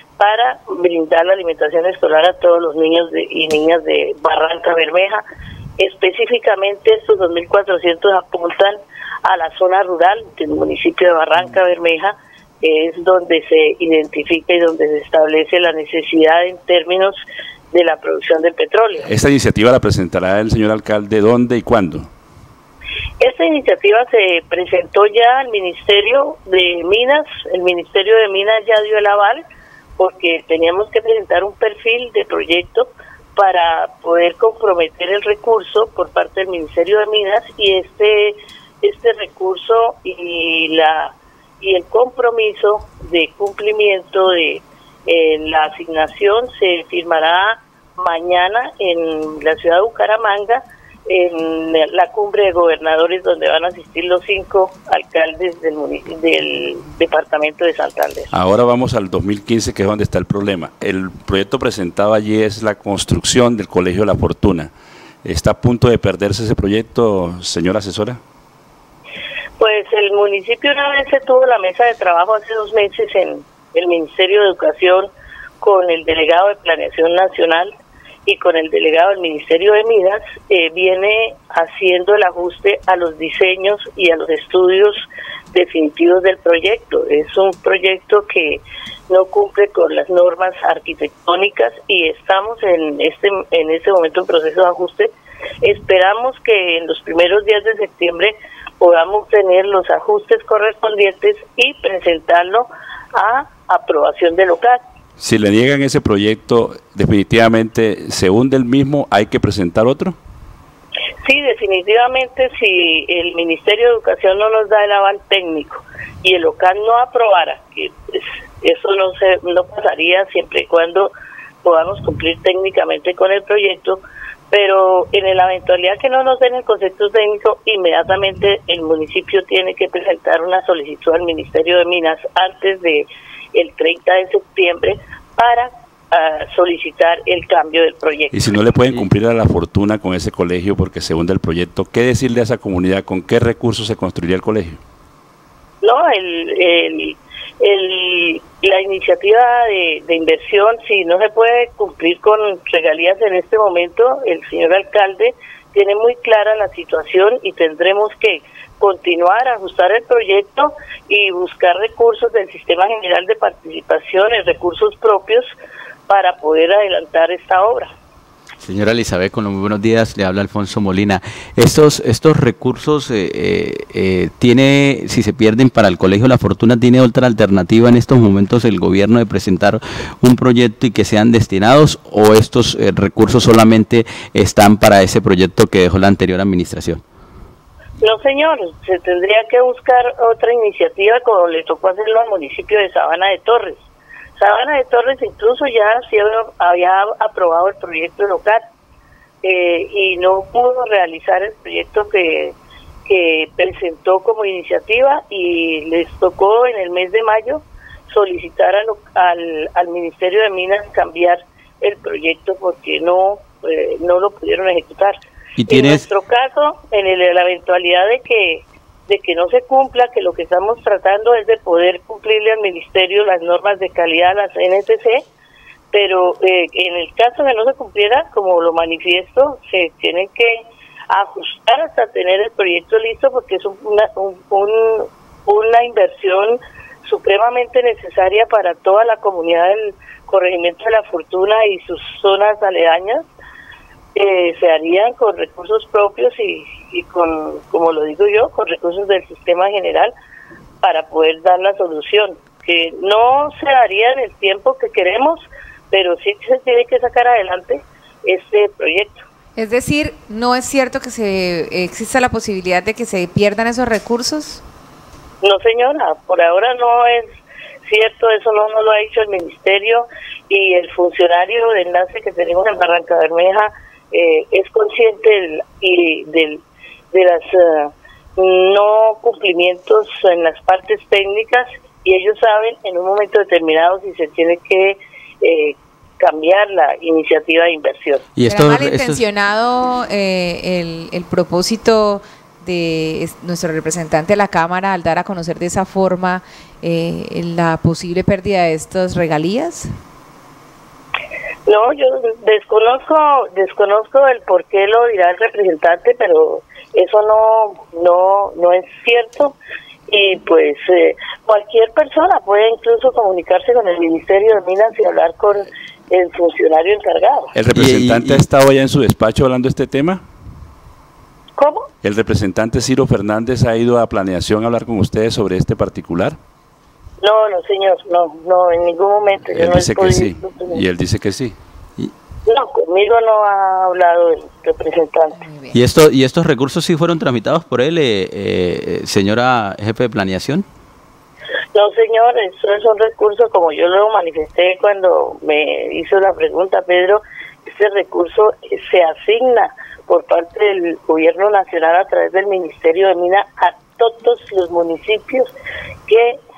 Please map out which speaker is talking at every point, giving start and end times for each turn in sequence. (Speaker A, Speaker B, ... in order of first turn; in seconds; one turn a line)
Speaker A: 0.2-5.2
Speaker A: 5.8-17.2
Speaker A: 17.7-19.1
Speaker B: 19.0-22.1
Speaker A: 23.2-29.4
Speaker A: 30.0-58.3
Speaker B: 58.3-64.7
Speaker B: 65.2-68.2
Speaker A: 69.6-75.1
Speaker A: 75.6-77.7
Speaker A: 78.2-104.8
Speaker B: 105.2-110.2
Speaker A: 111.2-121.1
Speaker A: 121.6-138.4
Speaker B: 138.3-144.8
Speaker A: 145.8-165.5
Speaker A: 166.1-167.9
Speaker C: 168.6-187.0
Speaker A: 188.0-193.8
Speaker A: 194.4-198.6
Speaker A: 199.4-225.2
Speaker C: 215.6-216.1
Speaker A: 225.9-243.3
Speaker A: 244.1-250.1
Speaker A: 250.8-259.2
Speaker D: 259.6-264.6
Speaker A: 265.4-288.3
Speaker C: 288.4-289.2
Speaker D: 288.5-299.9
Speaker A: 301.6-309.6
Speaker A: 310.1-317.5
Speaker B: 317.5-320.2
Speaker C: 317.7-318.4
Speaker A: 321.6-321.9
Speaker B: 322.0-326.4
Speaker A: 327.2-330.8
Speaker B: 329.5-331.6
Speaker A: 332.4-335.4
Speaker D: 335.4-335.7
Speaker C: 335.7-340.6
Speaker A: 341.7-355.5
Speaker A: 356.1-356.4